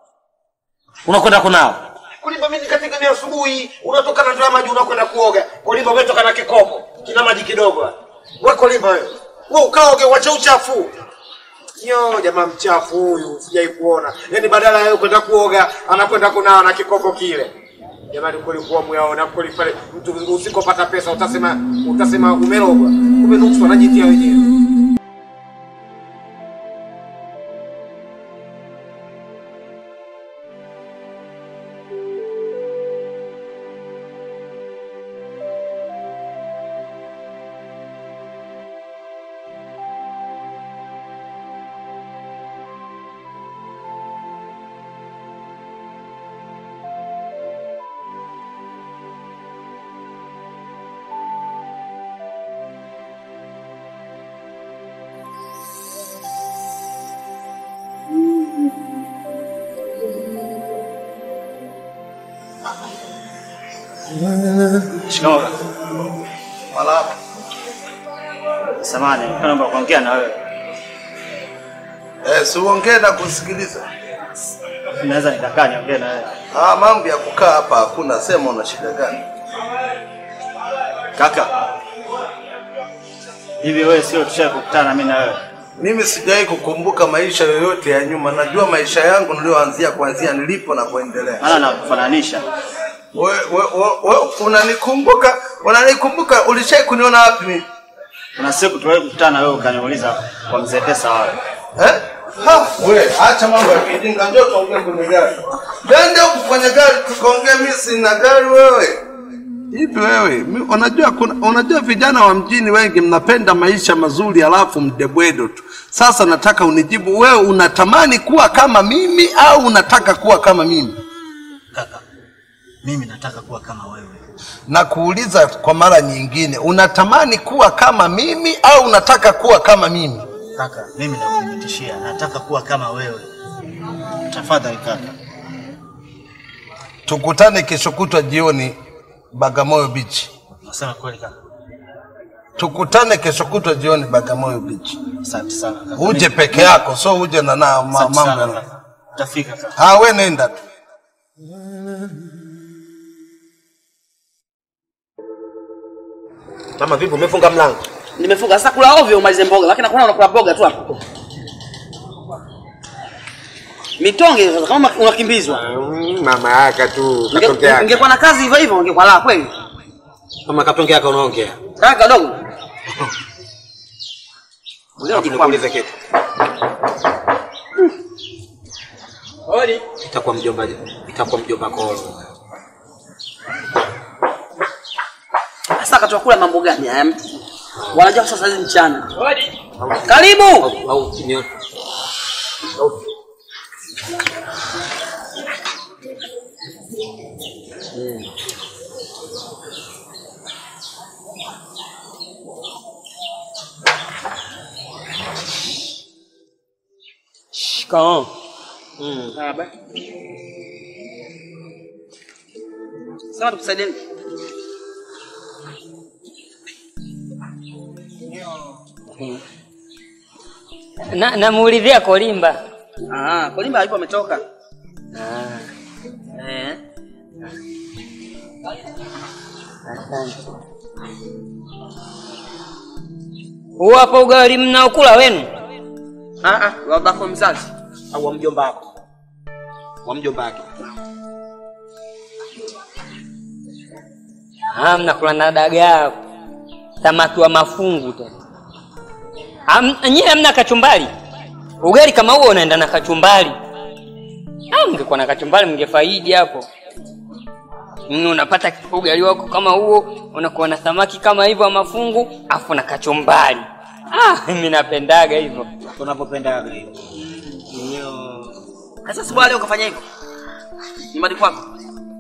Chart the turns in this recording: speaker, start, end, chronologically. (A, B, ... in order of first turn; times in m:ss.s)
0:01.1-0:10.9 A
0:11.8-0:17.5 A
0:18.1-0:24.5 A
1:05.1-1:05.6 B
1:06.7-1:07.1 C
1:08.8-1:10.4 B
1:12.2-1:13.8 C
1:15.0-1:16.4 B
1:16.5-1:19.2 C
1:21.2-1:21.6 B
1:23.6-1:25.4 B
1:25.8-1:31.6 C
1:31.4-1:32.5 B
1:33.2-1:37.6 C
1:38.4-1:41.4 B
1:41.8-1:49.0 C
1:49.7-2:01.0 C
2:02.8-2:04.2 B
2:04.7-2:10.3 C
2:10.6-2:13.3 B
2:14.3-2:15.2 B
2:17.1-2:18.8 C
2:19.3-2:20.3 C
2:20.6-2:21.3 B
2:22.6-2:25.0 C
2:25.2-2:26.8 B
2:26.0-2:28.6 C
2:27.9-2:29.8 B
2:29.8-2:30.6 C
2:36.8-2:37.8 A
2:38.2-2:40.9 D
2:44.0-2:45.6 D
2:45.5-2:48.0 A
2:47.3-2:49.5 D
2:50.5-2:51.6 A
2:51.7-2:52.4 D
2:55.0-2:55.9 A
2:55.0-2:55.6 D
2:59.5-2:59.8 E
3:00.1-3:02.2 A
3:05.8-3:07.2 D
3:07.9-3:09.1 D
3:09.8-3:11.4 A
3:10.0-3:10.7 D
3:27.5-3:28.3 E
3:29.4-3:29.7 D
3:33.3-3:34.0 D
3:41.1-3:42.6 E
3:43.1-3:44.4 D
3:45.2-3:45.7 E
3:53.8-3:55.5 E
3:56.4-3:57.7 D
3:58.1-3:58.9 A
4:00.0-4:00.6 A
4:04.7-4:06.2 E
4:07.0-4:08.3 E
4:09.7-4:11.1 E
4:11.8-4:13.6 E
4:14.7-4:16.7 E
4:18.1-4:25.7 E
4:25.9-4:27.0 A
4:27.7-4:28.5 A
4:29.1-4:30.0 D
4:31.1-4:31.6 D